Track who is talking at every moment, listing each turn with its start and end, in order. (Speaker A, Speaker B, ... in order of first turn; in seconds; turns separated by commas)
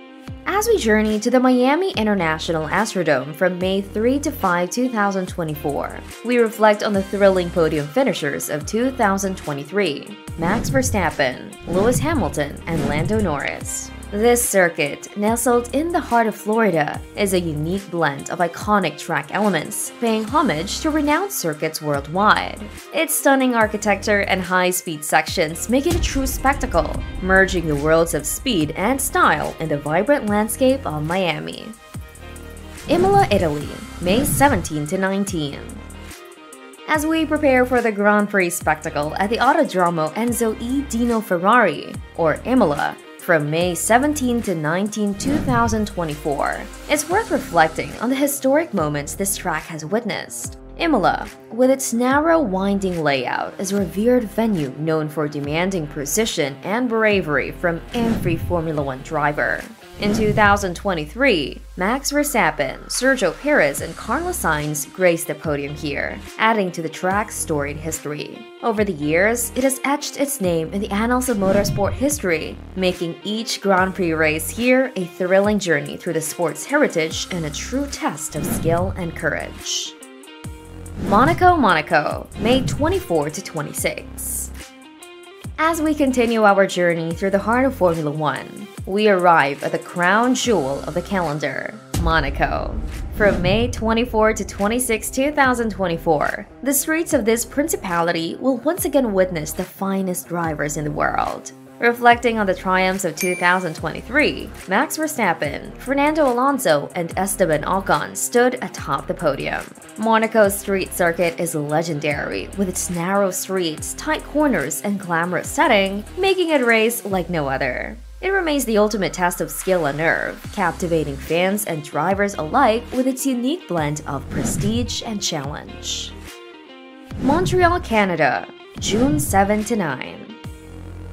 Speaker A: 0.5-31.8, Speaker A: 32.9-35.8, Speaker A: 36.9-80.0, Speaker A: 81.1-84.5, Speaker A: 85.6-126.1, Speaker A: 127.2-130.4